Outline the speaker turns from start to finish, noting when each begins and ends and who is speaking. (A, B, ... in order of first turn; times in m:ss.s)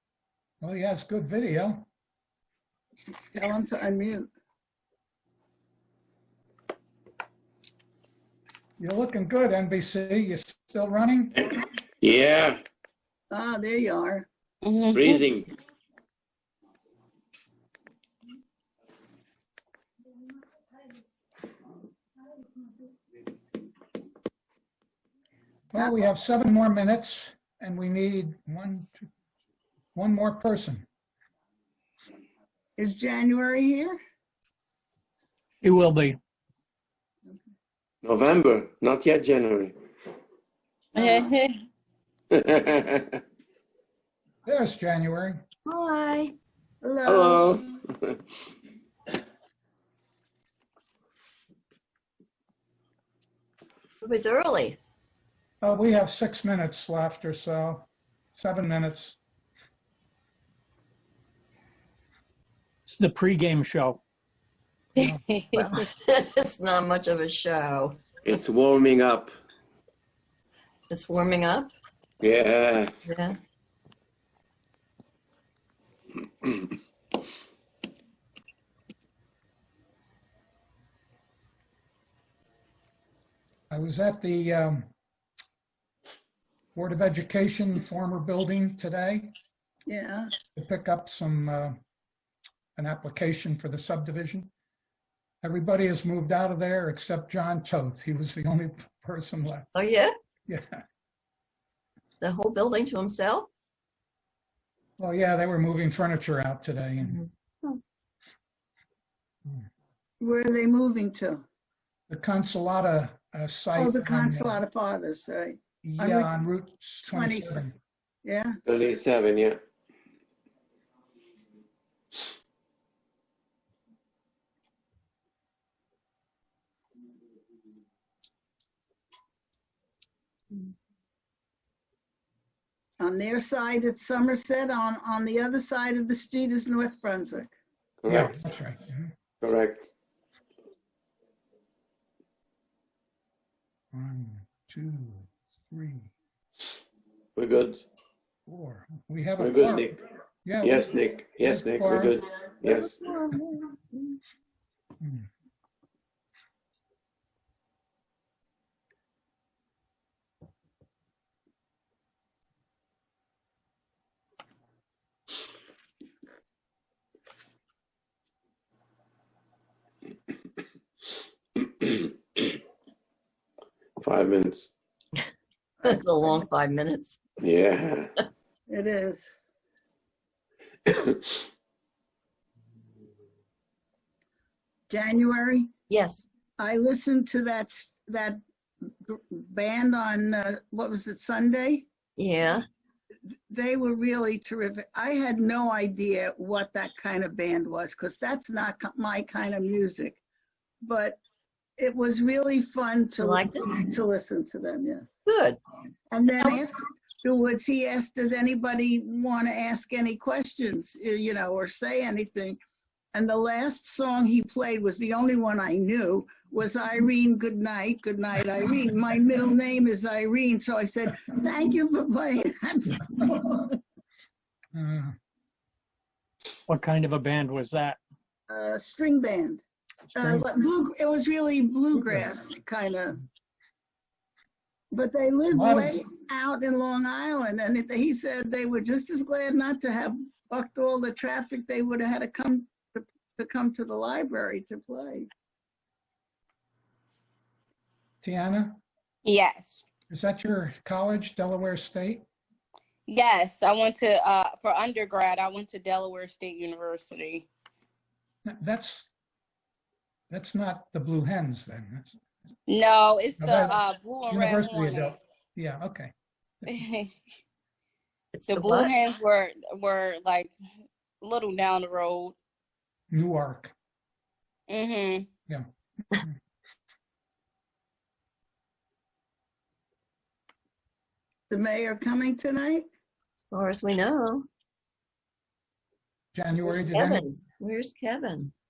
0:00.6-0:01.9 A
0:03.3-0:04.3 B
0:08.8-0:11.4 A
0:12.0-0:12.6 C
0:13.3-0:14.3 B
0:14.6-0:15.2 D
0:14.9-0:15.5 C
0:25.7-0:29.1 A
0:29.9-0:30.8 A
0:32.8-0:34.0 B
0:35.6-0:36.2 E
0:38.0-0:39.7 C
0:40.9-0:41.5 D
0:41.0-0:41.3 B
0:42.3-0:43.2 C
0:44.4-0:45.4 A
0:45.6-0:46.3 F
0:46.8-0:47.6 B
0:47.0-0:48.2 C
0:54.0-0:54.8 F
0:55.6-0:59.2 A
1:02.9-1:04.0 E
1:05.0-1:05.7 D
1:05.0-1:05.8 A
1:05.9-1:08.0 F
1:08.2-1:09.3 C
1:10.9-1:11.7 F
1:12.2-1:13.0 C
1:13.0-1:13.4 F
1:23.7-1:24.9 A
1:26.7-1:29.3 A
1:29.9-1:30.3 B
1:30.6-1:31.8 A
1:32.8-1:34.5 A
1:35.4-1:39.7 A
1:39.7-1:40.1 F
1:40.5-1:40.8 A
1:42.2-1:43.5 F
1:45.0-1:47.2 A
1:47.0-1:47.8 F
1:50.2-1:51.4 B
1:52.1-1:54.6 A
1:53.8-1:56.4 B
1:55.8-1:57.8 A
1:57.1-1:57.6 B
1:58.2-1:58.6 B
1:58.7-1:59.6 C
2:13.0-2:17.5 B
2:18.0-2:18.4 C
2:18.1-2:19.1 A
2:19.4-2:19.9 C
2:23.9-2:26.1 A
2:27.4-2:27.8 C
2:28.5-2:32.2 A
2:29.4-2:30.0 C
2:30.6-2:32.9 C
2:32.6-2:34.2 F
2:35.0-2:35.2 A
2:54.0-2:54.7 C
2:55.8-2:57.2 F
2:57.4-2:58.1 C
2:58.7-2:59.3 B
3:00.9-3:01.4 C
3:04.9-3:05.7 B
3:05.9-3:06.3 F
3:06.6-3:08.4 B
3:09.0-3:11.9 B
3:12.2-3:12.6 F
3:13.5-3:20.2 B
3:20.8-3:21.2 B
3:21.8-3:25.1 B
3:23.2-3:23.8 F
3:25.3-3:25.6 F
3:26.1-3:32.6 B
3:33.1-3:43.8 B
3:44.7-3:45.2 A
3:46.7-3:48.0 E
3:48.5-3:49.6 B
3:50.1-3:53.2 B
3:50.2-3:50.4 A
3:54.9-4:05.3 B
3:55.5-3:56.0 A
4:08.2-4:08.8 A
4:09.2-4:09.9 D
4:10.1-4:12.2 A
4:13.1-4:17.5 D
4:18.4-4:19.1 A
4:20.3-4:22.2 A
4:22.7-4:25.2 D
4:23.4-4:26.1 A
4:26.7-4:27.1 D
4:28.3-4:29.0 F
4:28.5-4:30.5 D
4:31.2-4:32.3 D
4:33.1-4:33.7 A
4:34.7-4:35.2 D
4:35.5-4:36.3 A
4:41.5-4:42.8 B
4:43.5-4:44.5 F
4:46.3-4:47.2 A
4:46.6-4:48.5 F